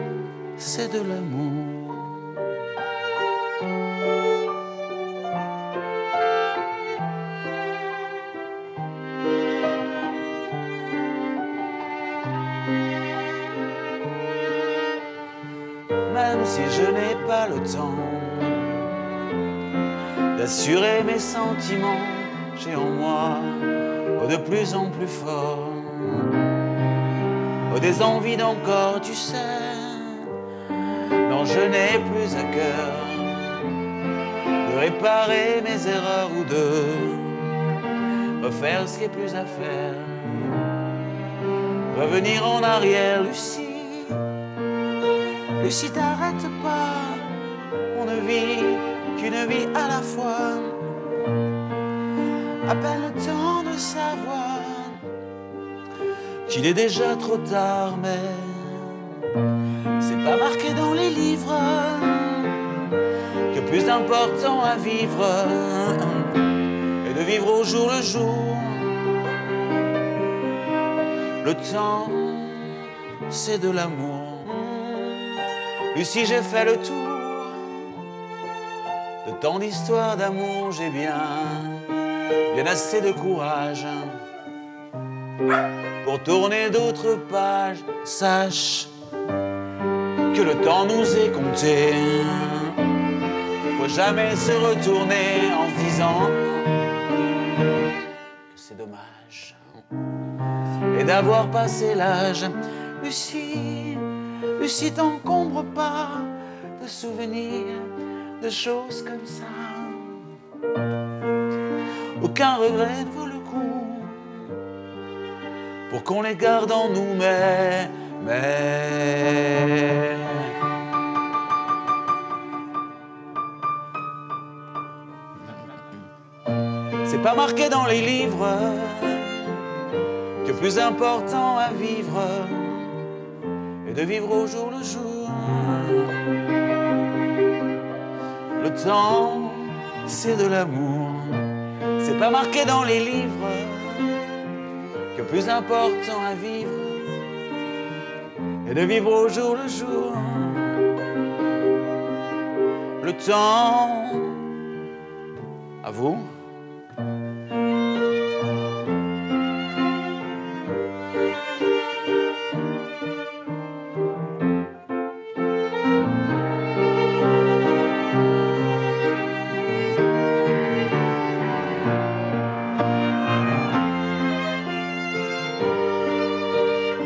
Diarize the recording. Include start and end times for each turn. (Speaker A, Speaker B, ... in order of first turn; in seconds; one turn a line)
Speaker A: 0.6-2.4
Speaker A: 16.1-18.9
Speaker A: 20.3-26.4
Speaker A: 27.7-30.3
Speaker A: 31.2-33.8
Speaker A: 34.6-37.5
Speaker A: 38.4-40.8
Speaker A: 41.9-44.2
Speaker A: 45.6-50.8
Speaker A: 52.6-55.0
Speaker A: 56.5-59.0
Speaker A: 60.0-62.6
Speaker A: 63.5-66.5
Speaker A: 67.0-69.2
Speaker A: 71.4-78.0
Speaker A: 79.2-82.0
Speaker A: 82.5-84.2
Speaker A: 86.0-88.9
Speaker A: 90.3-92.8
Speaker A: 93.7-96.8
Speaker A: 98.5-99.8
Speaker A: 100.9-110.2
Speaker A: 112.2-114.5
Speaker A: 115.9-120.6
Speaker A: 127.0-129.7
Speaker A: 130.4-133.0
Speaker A: 133.8-136.3
Speaker A: 138.6-144.2
Speaker A: 145.1-147.2
Speaker A: 148.6-150.8
Speaker A: 153.0-154.5
Speaker A: 155.8-156.3